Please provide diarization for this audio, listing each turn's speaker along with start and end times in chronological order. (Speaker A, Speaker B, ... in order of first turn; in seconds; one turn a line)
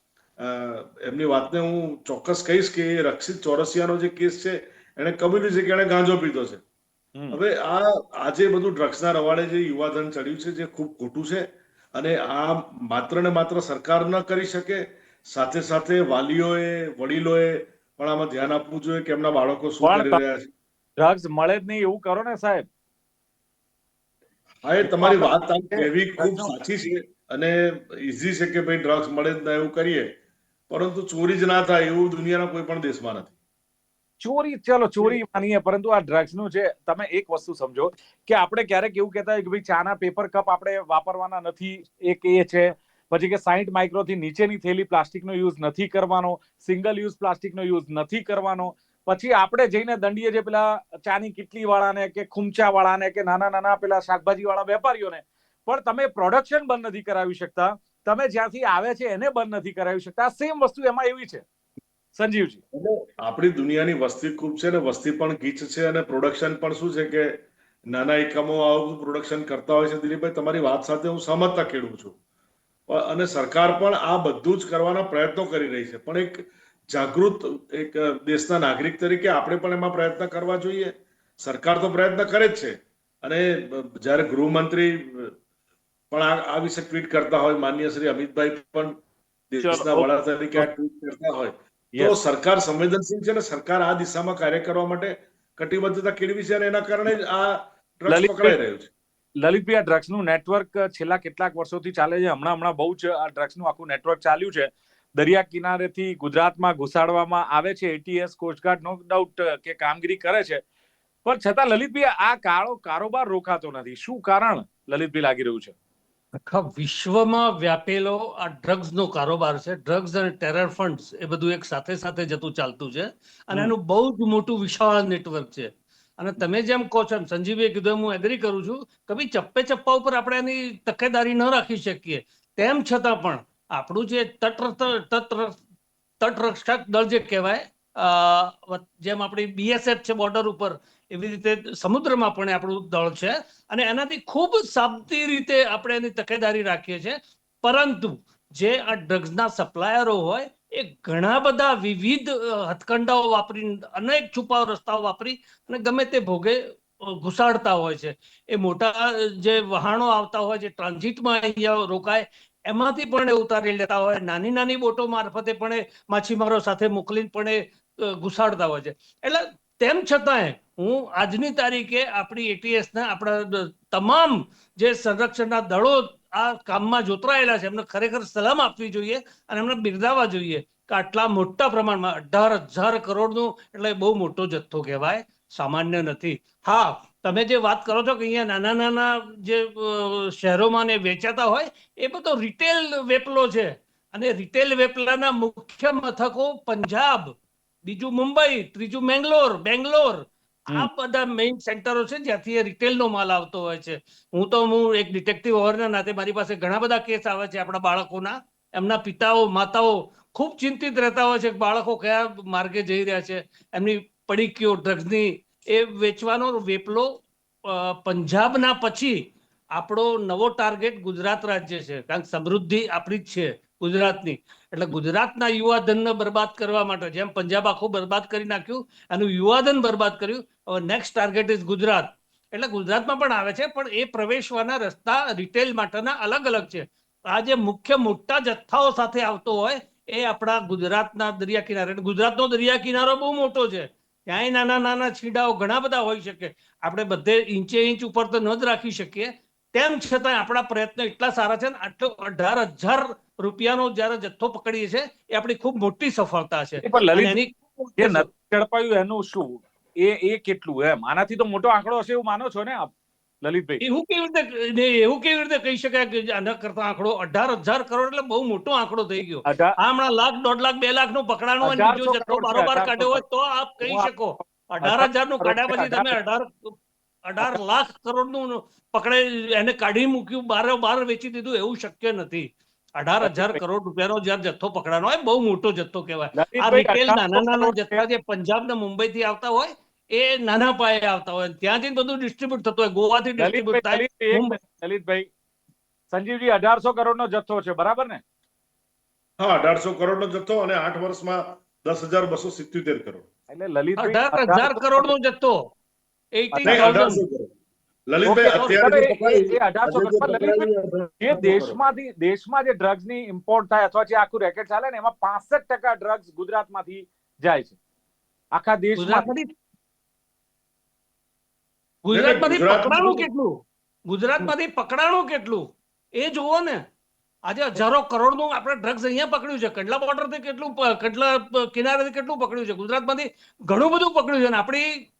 Speaker A: 0.4-6.6
Speaker A: 7.3-20.5
Speaker B: 19.8-20.2
Speaker B: 21.0-22.6
Speaker A: 24.6-30.1
Speaker B: 24.8-26.5
Speaker A: 30.7-33.3
Speaker B: 34.2-61.4
Speaker B: 62.1-62.6
Speaker A: 62.7-72.2
Speaker A: 72.9-85.3
Speaker A: 86.1-89.0
Speaker A: 89.5-98.9
Speaker B: 89.6-90.7
Speaker B: 98.1-98.5
Speaker B: 99.4-110.6
Speaker B: 111.2-115.7
Speaker C: 116.4-135.6
Speaker C: 136.2-197.3
Speaker C: 197.8-217.1
Speaker C: 217.7-258.3
Speaker B: 256.8-257.4
Speaker B: 258.0-263.8
Speaker C: 263.8-294.6
Speaker B: 269.4-269.8
Speaker B: 271.6-273.2
Speaker B: 273.8-276.1
Speaker B: 283.2-283.6
Speaker B: 286.3-288.0
Speaker B: 293.4-295.3
Speaker B: 296.1-298.2
Speaker A: 299.4-303.2
Speaker B: 303.5-305.1
Speaker C: 304.0-305.6
Speaker C: 306.4-307.2
Speaker B: 306.5-307.1
Speaker A: 306.6-307.5
Speaker A: 308.1-311.8
Speaker C: 308.2-308.8
Speaker B: 308.5-317.8
Speaker B: 318.5-319.3
Speaker C: 318.9-319.5
Speaker C: 322.0-323.5
Speaker A: 322.1-323.2
Speaker C: 324.1-325.6
Speaker C: 326.2-326.8
Speaker C: 327.5-334.9